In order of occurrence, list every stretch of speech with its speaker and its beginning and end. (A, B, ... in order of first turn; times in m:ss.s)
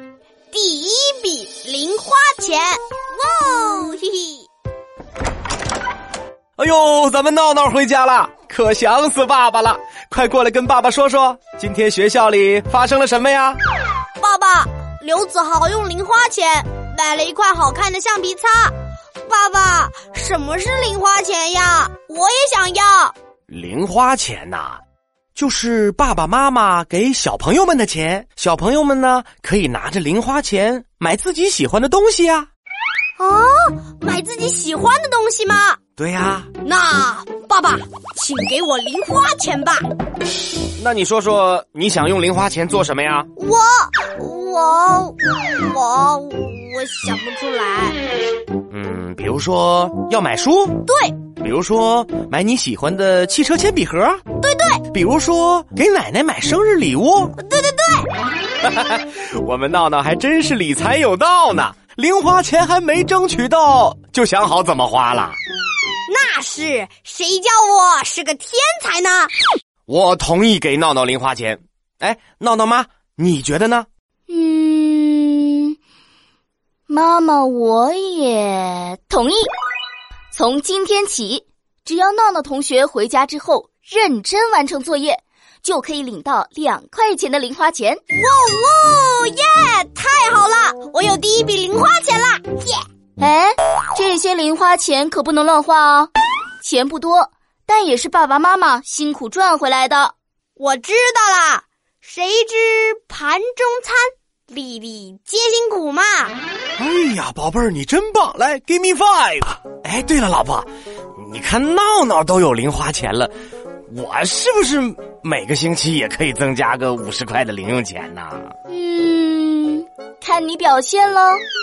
0:00.5-0:04.5 A
0:06.6-0:13.6 B
0:14.2-0:18.7 A
0:19.3-0:23.1 A
0:23.5-0:24.8 B
0:25.4-0:32.5 B
0:33.2-0:35.8 A
0:36.0-0:36.5 B
0:36.6-0:39.9 A
0:40.8-0:43.3 B
0:43.4-0:48.0 A
0:48.7-0:50.8 B
0:50.9-0:51.2 A
0:51.4-0:54.2 B
0:54.4-0:54.8 A
0:54.9-0:57.3 B
0:57.4-0:58.1 A
0:58.6-1:05.4 B
1:06.1-1:09.3 A
1:09.9-1:13.9 B
1:14.3-1:15.8 C
1:16.9-1:19.5 C
1:20.3-1:28.0 C
1:28.2-1:32.8 A
1:33.2-1:36.1 C
1:36.6-1:40.1 C
1:40.6-1:46.4 A
1:46.8-1:53.3 B
1:53.9-1:58.5 B
1:58.7-2:01.4 C